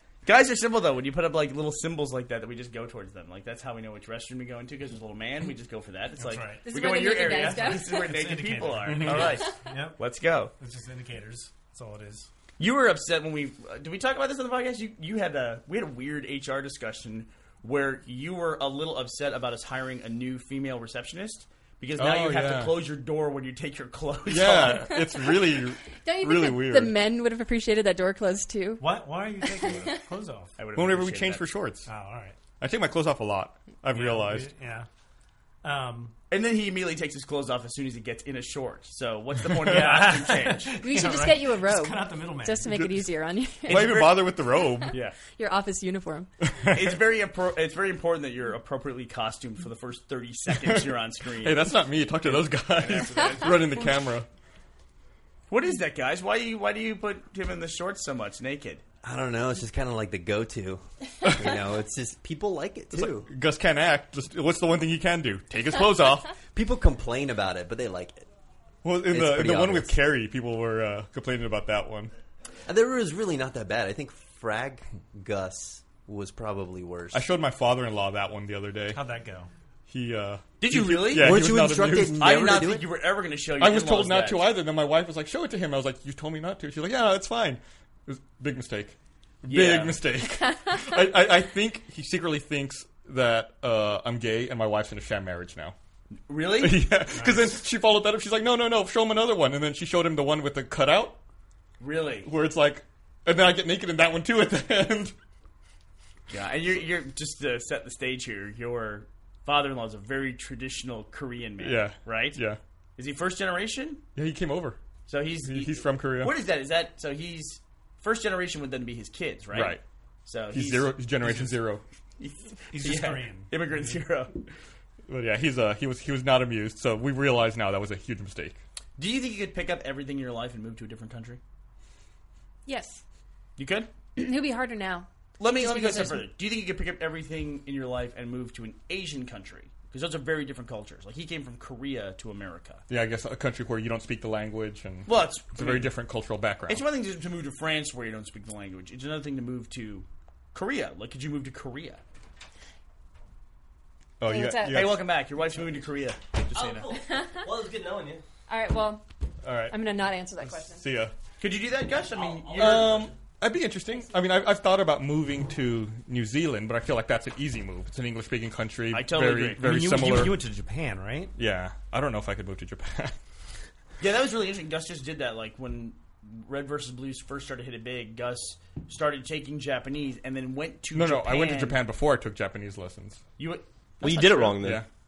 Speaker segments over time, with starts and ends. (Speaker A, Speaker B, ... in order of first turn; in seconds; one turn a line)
Speaker A: 0.2-10.5
Speaker B: 6.2-6.7
Speaker C: 6.6-8.1
Speaker B: 7.2-10.0
Speaker D: 8.8-9.4
Speaker C: 9.3-9.6
Speaker B: 10.6-12.3
Speaker A: 12.6-25.0
Speaker D: 22.0-22.8
Speaker D: 24.3-27.0
Speaker C: 24.9-30.1
Speaker B: 28.8-30.6
Speaker A: 30.6-31.5
Speaker D: 30.8-31.9
Speaker B: 31.9-32.4
Speaker D: 32.6-34.5
Speaker B: 33.9-34.9
Speaker B: 35.6-36.1
Speaker A: 36.3-40.8
Speaker B: 39.6-42.9
Speaker C: 40.8-46.3
Speaker D: 42.7-43.0
Speaker D: 43.7-45.0
Speaker A: 43.7-44.1
Speaker A: 44.9-45.2
Speaker D: 46.4-47.0
Speaker A: 46.7-53.8
Speaker D: 51.4-54.3
Speaker C: 53.3-53.6
Speaker A: 55.5-58.8
Speaker E: 59.0-63.3
Speaker D: 62.9-66.3
Speaker E: 66.5-68.2
Speaker D: 68.8-72.1
Speaker E: 69.1-70.0
Speaker E: 72.7-77.3
Speaker D: 77.1-79.0
Speaker B: 78.9-79.5
Speaker D: 79.9-82.3
Speaker A: 80.6-81.6
Speaker E: 81.1-82.9
Speaker A: 82.1-84.5
Speaker D: 83.6-95.8
Speaker A: 89.5-90.0
Speaker A: 96.3-96.9
Speaker D: 96.6-101.2
Speaker B: 97.1-97.5
Speaker A: 101.8-102.3
Speaker D: 102.2-105.1
Speaker A: 106.3-112.4
Speaker D: 111.6-112.6
Speaker A: 113.0-114.0
Speaker D: 114.2-114.8
Speaker A: 115.1-121.0
Speaker D: 115.4-116.3
Speaker D: 119.5-119.8
Speaker D: 120.5-121.8
Speaker B: 121.2-121.5
Speaker A: 122.2-124.5
Speaker B: 122.7-124.0
Speaker D: 125.1-128.6
Speaker A: 129.0-131.4
Speaker C: 132.7-133.0
Speaker A: 133.6-134.2
Speaker C: 134.2-136.3
Speaker A: 135.4-142.8
Speaker D: 142.9-146.8
Speaker A: 145.1-145.9
Speaker A: 146.7-152.0
Speaker D: 154.2-155.0
Speaker C: 154.2-154.9
Speaker A: 154.7-156.9
Speaker F: 156.5-158.2
Speaker C: 156.9-157.5
Speaker C: 158.5-159.1
Speaker D: 159.4-159.8
Speaker C: 159.7-160.8
Speaker D: 160.4-161.1
Speaker A: 161.4-163.1
Speaker F: 162.2-162.8
Speaker D: 162.6-170.4
Speaker A: 168.9-169.6
Speaker B: 169.6-171.3
Speaker D: 171.3-173.2
Speaker A: 174.0-181.8
Speaker D: 180.9-183.2
Speaker A: 183.4-184.7
Speaker F: 184.0-184.8
Speaker D: 184.6-184.9